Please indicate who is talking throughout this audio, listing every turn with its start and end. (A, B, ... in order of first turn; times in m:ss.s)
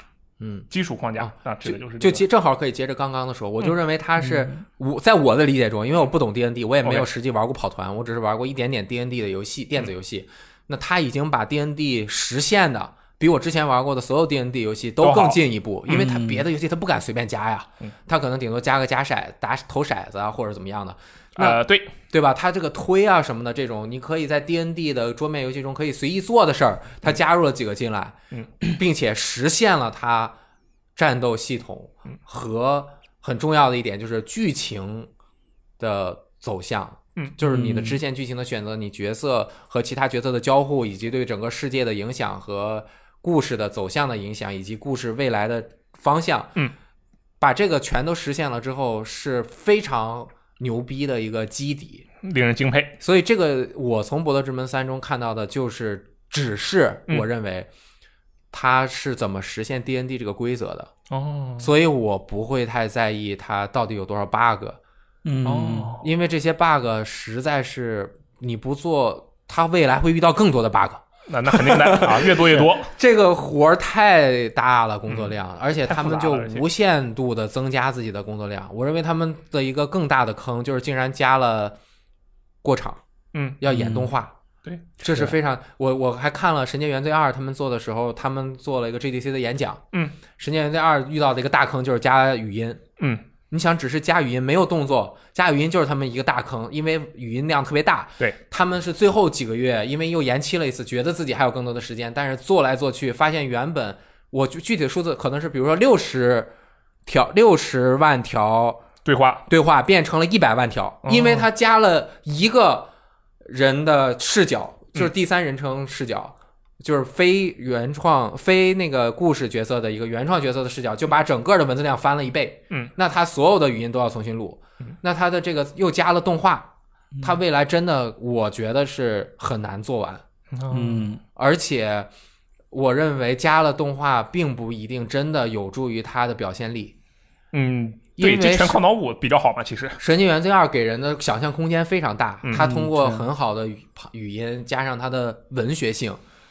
0:00.4-0:00.7 A
0:00.7-0:02.2 B
0:01.2-0:30.3 A
0:04.2-0:04.5 C
0:06.8-0:07.1 B
0:15.0-0:15.4 B
0:15.9-0:16.4 C
0:21.4-0:21.9 B
0:31.0-0:35.1 A
0:35.8-0:46.6 A
0:37.4-0:38.0 C
0:47.4-0:52.0 A
0:52.2-0:53.0 B
0:53.0-0:57.7 A
0:58.5-1:00.9 A
1:01.1-1:01.7 B
1:01.6-1:04.8 A
1:05.2-1:05.9 C
1:05.4-1:06.1 B
1:06.0-1:21.8 A
1:11.3-1:12.9 B
1:15.8-1:16.6 B
1:22.6-1:23.0 A
1:23.3-1:23.7 B
1:23.6-1:24.3 A
1:23.7-1:24.1 C
1:24.6-1:25.0 B
1:25.0-1:29.8 A
1:30.4-1:32.8 A
1:33.5-1:46.5 A
1:47.0-1:48.8 A
1:49.0-1:49.4 B
1:49.5-1:52.9 A
1:51.0-1:51.5 B
1:53.4-2:06.7 A
2:07.2-2:10.2 A
2:10.5-2:11.1 B
2:10.7-2:11.2 C
2:11.4-2:12.1 A
2:12.7-2:16.9 A
2:17.5-2:20.0 B
2:18.2-2:18.8 A
2:20.0-2:26.2 A
2:22.4-2:22.7 B
2:22.5-2:23.3 C